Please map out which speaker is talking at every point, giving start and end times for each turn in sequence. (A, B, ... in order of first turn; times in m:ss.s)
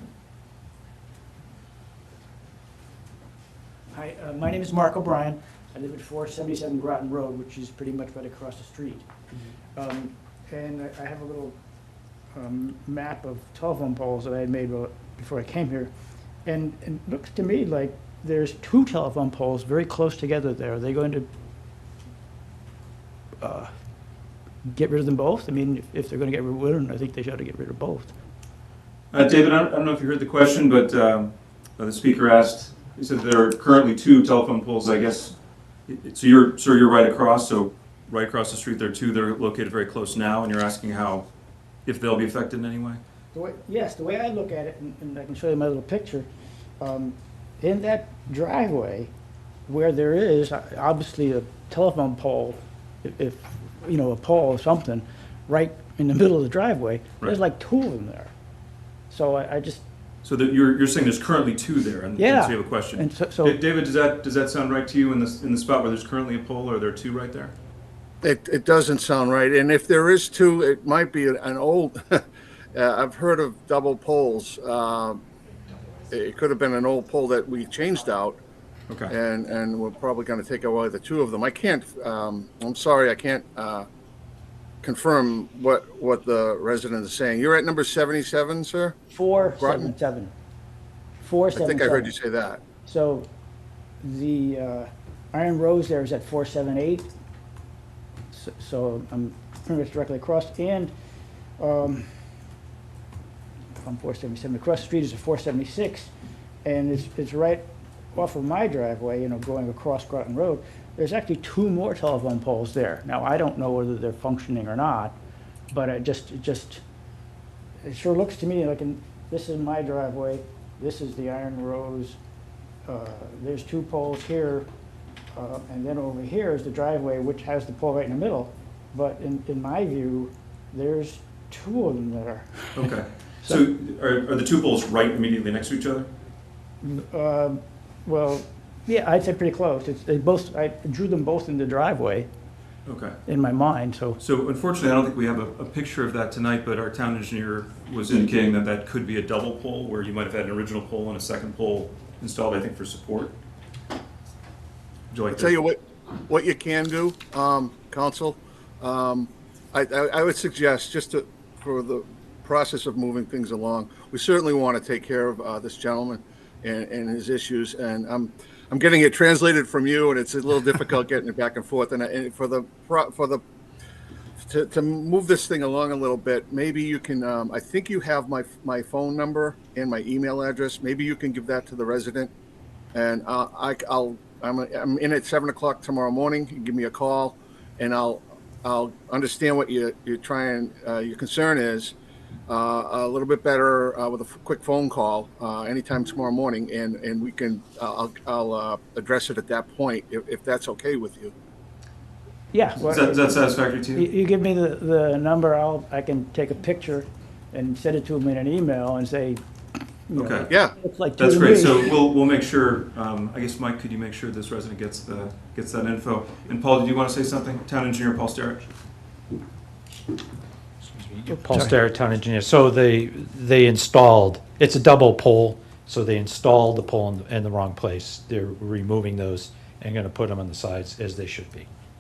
0:03.9-0:09.1 A
0:09.8-0:11.6 A
0:12.3-0:15.9 A
0:16.4-0:21.3 A
0:23.4-0:23.7 A
0:24.6-0:28.2 A
0:29.1-0:35.3 B
0:35.9-0:41.3 B
0:41.9-0:43.0 B
0:43.3-0:46.3 A
0:46.8-0:49.1 A
0:49.7-0:58.3 A
0:59.1-0:59.8 A
1:00.2-1:07.5 B
1:02.2-1:03.6 A
1:08.2-1:15.2 C
1:16.1-1:18.4 C
1:18.9-1:19.1 B
1:19.1-1:23.9 C
1:24.8-1:29.9 C
1:29.1-1:30.3 A
1:31.2-1:32.1 A
1:31.5-1:32.6 C
1:32.8-1:33.3 A
1:34.0-1:37.1 A
1:38.3-1:40.9 A
1:41.6-1:42.1 A
1:43.8-1:46.1 A
1:46.6-1:55.2 A
1:55.7-1:56.8 A
1:57.8-2:02.2 A
2:02.9-2:04.7 A
2:05.3-2:13.6 A
2:12.8-2:16.1 B
2:16.8-2:22.3 A
2:22.9-2:23.2 B
2:23.2-2:24.2 A
2:24.2-2:33.4 B
2:35.1-2:35.6 B
2:35.3-2:53.4 C
2:54.4-3:02.3 C
3:02.9-3:11.9 C
3:12.5-3:21.3 C
3:22.5-3:29.4 A
3:22.8-3:24.1 B
3:30.1-3:31.9 A
3:30.2-3:30.6 B
3:31.2-3:38.7 B
3:40.8-3:51.7 D